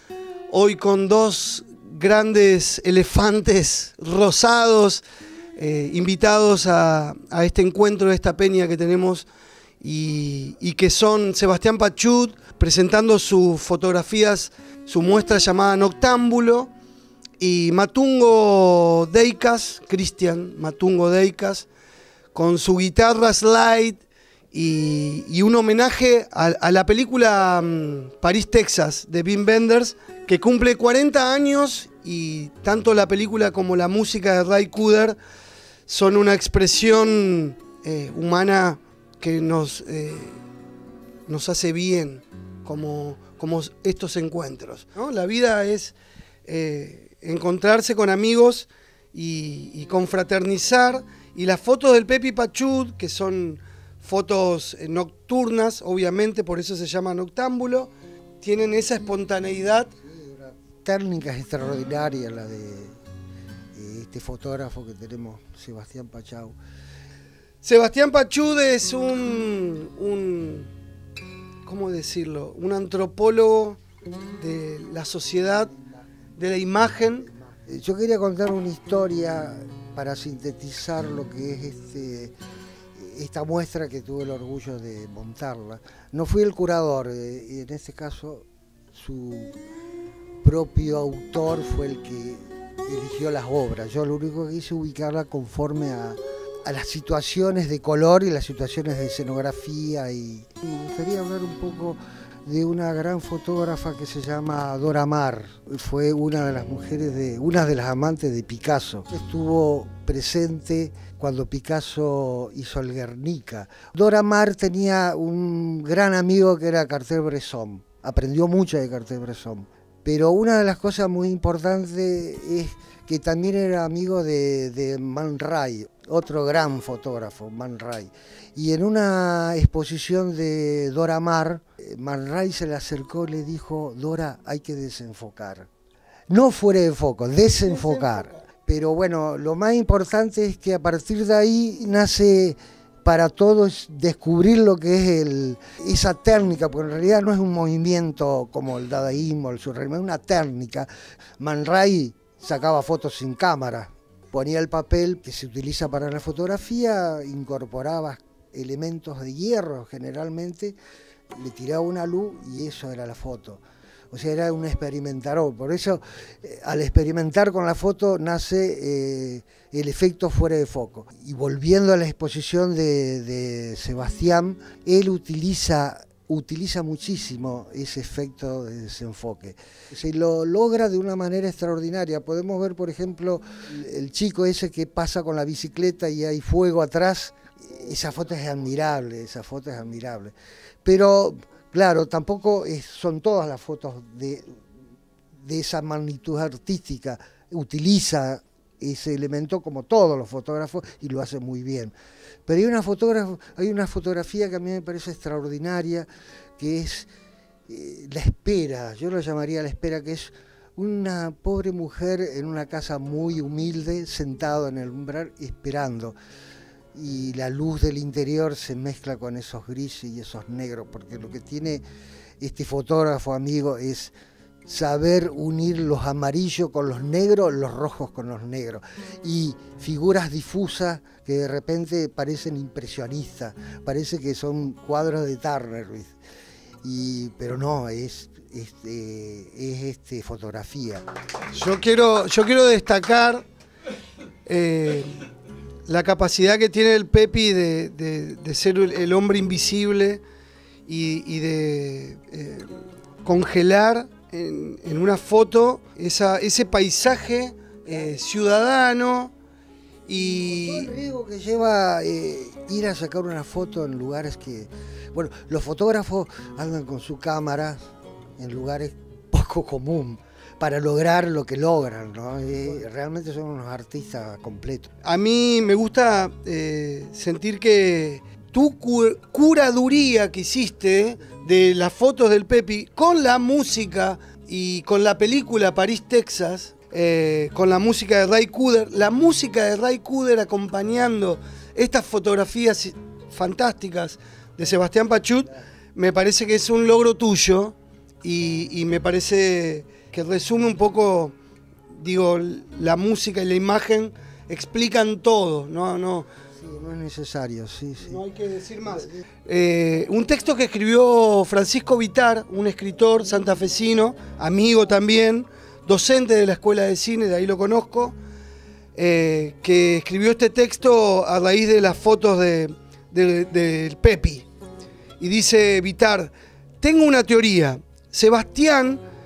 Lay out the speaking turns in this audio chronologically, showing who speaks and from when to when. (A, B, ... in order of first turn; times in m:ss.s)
0:00.5-0:05.0 A
0:05.6-0:09.3 A
0:09.8-0:16.7 A
0:17.4-0:21.7 A
0:22.3-0:35.2 A
0:35.9-0:40.4 A
0:41.3-0:46.0 A
0:46.5-0:59.9 A
1:00.0-1:03.0 B
1:03.7-1:06.6 B
1:07.6-1:10.7 A
1:11.6-1:13.8 A
1:14.4-1:15.7 A
1:15.7-1:16.0 B
1:16.4-1:17.3 A
1:17.3-1:22.4 B
1:23.0-1:29.6 B
1:30.4-2:15.7 B
2:16.3-2:40.8 B
2:17.6-2:18.4 A
2:41.3-3:14.6 B
3:15.4-3:21.9 B
3:22.5-3:27.1 B
3:27.7-3:36.2 B
3:36.9-3:41.8 B
3:42.4-3:44.1 B
3:44.6-3:56.1 B
3:56.8-4:01.0 B
4:01.5-4:03.4 A
4:04.5-4:05.2 A
4:05.9-4:10.2 A
4:10.9-4:19.3 A
4:20.1-4:20.9 A
4:20.4-4:34.9 B
4:35.0-5:01.4 A
5:02.0-5:06.3 A
5:06.6-5:08.2 B
5:08.0-5:18.2 A
5:08.9-5:09.2 B
5:19.0-5:24.5 A
5:25.2-5:29.0 A